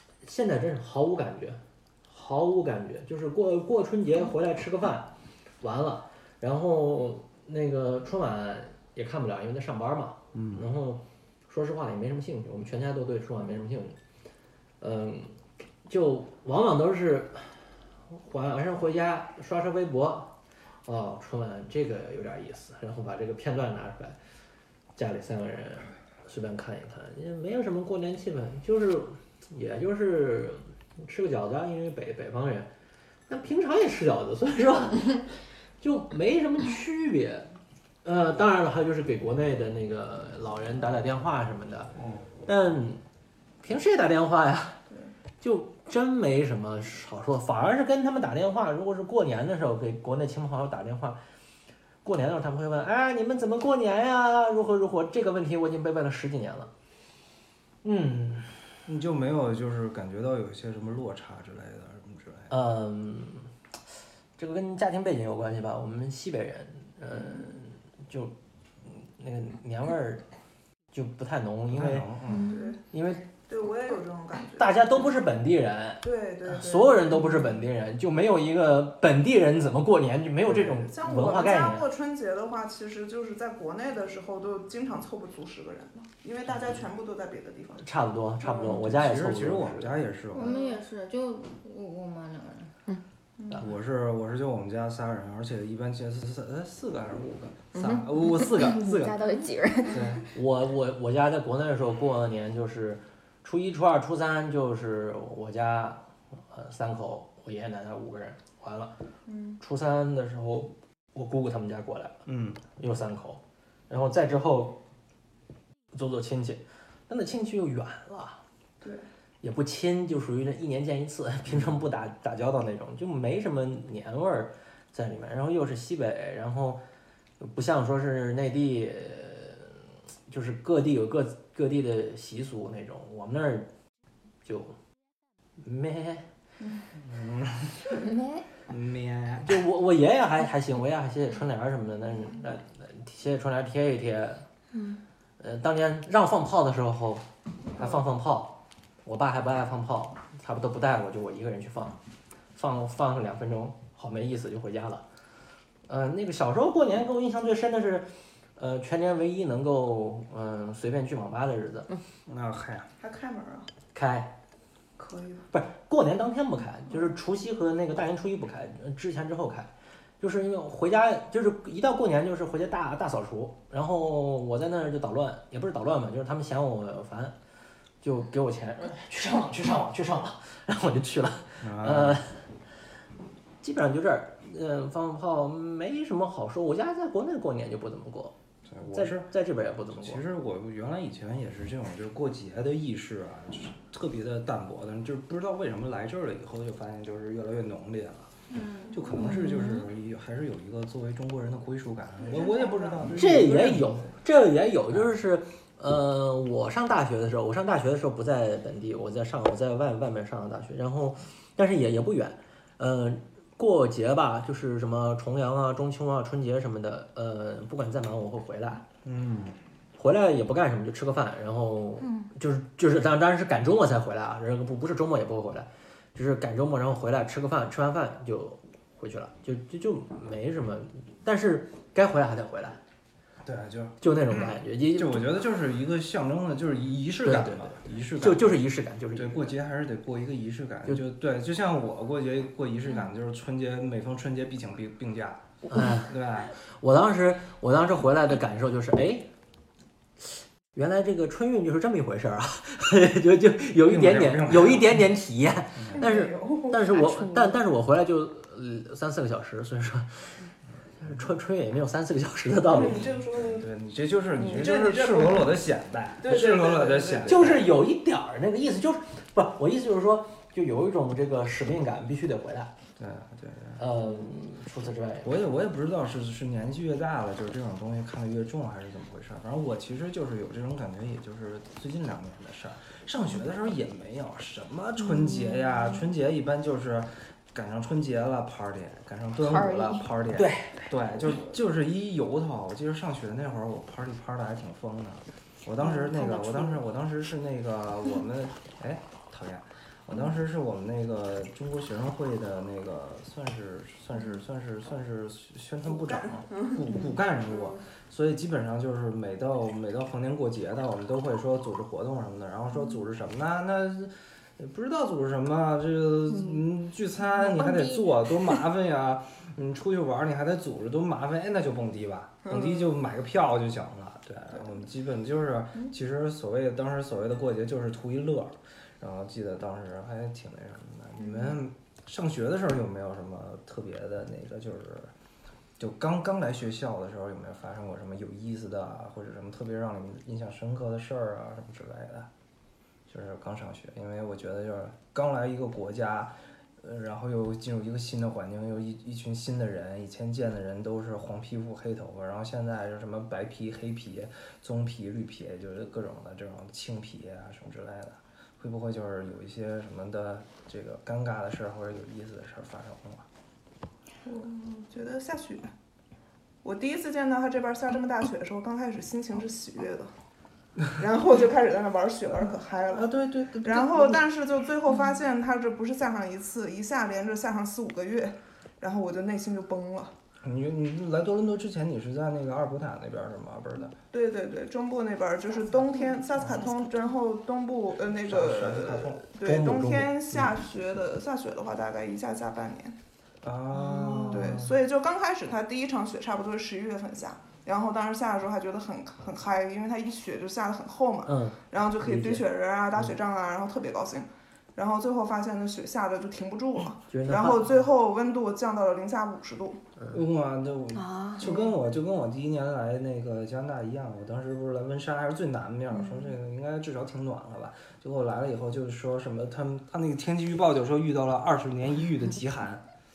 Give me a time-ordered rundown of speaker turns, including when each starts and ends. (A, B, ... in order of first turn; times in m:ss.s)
0:00.2-0:14.0 A
0:14.8-0:24.2 A
0:25.0-0:32.7 A
0:33.3-0:43.0 A
0:43.6-0:44.8 A
0:45.4-0:51.2 A
0:52.0-0:56.7 A
0:57.8-0:58.5 A
0:58.9-1:02.5 B
1:02.5-1:03.5 A
1:04.4-1:10.3 A
1:10.9-1:12.1 A
1:11.7-1:12.5 B
1:12.3-1:12.7 C
1:12.4-1:12.8 D
1:12.9-1:13.3 A
1:13.5-1:15.1 D
1:14.6-1:21.9 A
1:16.0-1:17.5 D
1:20.5-1:27.9 D
1:27.8-1:30.0 A
1:28.7-1:30.6 B
1:30.3-1:32.8 E
1:30.4-1:30.8 D
1:33.5-1:39.2 B
1:37.8-1:40.0 C
1:39.9-1:40.3 B
1:40.3-1:48.9 A
1:49.3-1:49.6 D
1:49.6-1:54.8 A
1:52.3-1:52.6 B
1:55.9-1:58.4 A
1:59.4-2:06.8 A
2:07.4-2:13.7 A
2:14.4-2:14.8 A
2:15.6-2:16.3 A
2:17.0-2:18.0 B
2:17.9-2:18.4 C
2:18.7-2:19.6 B
2:19.4-2:24.5 A
2:25.4-2:32.0 A
2:32.6-2:35.0 A
2:35.9-2:41.9 A
2:42.3-2:42.9 B
2:43.0-2:43.7 D
2:43.9-2:44.4 A
2:45.0-2:45.5 D
2:45.5-2:57.4 A
2:58.0-3:02.4 A
3:01.6-3:02.2 B
3:03.6-3:08.4 A
3:08.7-3:09.3 B
3:08.9-3:10.2 A
3:10.0-3:18.3 B
3:18.9-3:24.2 B
3:22.2-3:23.3 D
3:23.1-3:38.8 A
3:39.1-3:39.5 B
3:40.0-3:52.8 A
3:53.4-3:58.6 B
3:54.0-3:55.4 A
3:57.2-3:59.6 A
3:59.1-4:06.5 B
4:05.7-4:09.3 A
4:10.2-4:20.4 A
4:13.9-4:15.0 B
4:15.8-4:16.0 B
4:16.0-4:16.8 D
4:16.9-4:17.6 C
4:21.0-4:23.1 A
4:22.7-4:23.7 D
4:22.8-4:27.6 B
4:24.4-4:25.6 D
4:26.2-4:27.7 D
4:27.3-4:32.7 A
4:33.0-4:33.8 B
4:33.8-4:35.4 A
4:35.2-5:35.1 B
4:45.0-4:46.0 C
4:49.4-4:50.1 C
4:50.4-4:51.0 A
4:55.8-4:56.8 C
5:05.9-5:06.8 D
5:07.5-5:07.8 D
5:16.3-5:16.7 C
5:17.3-5:18.6 C
5:22.5-5:22.8 D
5:31.2-5:31.6 D
5:35.8-5:42.3 B
5:43.1-6:03.3 B
6:04.2-6:05.7 D
6:06.6-6:10.1 D
6:10.9-6:13.1 D
6:12.9-6:14.2 B
6:13.6-6:20.1 D
6:20.4-6:24.0 B
6:24.1-6:33.0 D
6:28.2-6:29.3 B
6:29.4-6:30.5 A
6:33.4-6:34.8 B
6:33.9-6:34.3 C
6:34.3-6:49.8 D
6:41.2-6:43.2 A
6:47.1-6:47.7 A
6:50.1-7:02.8 B
6:51.0-6:51.5 C
6:51.4-6:51.7 D
6:56.0-6:56.3 D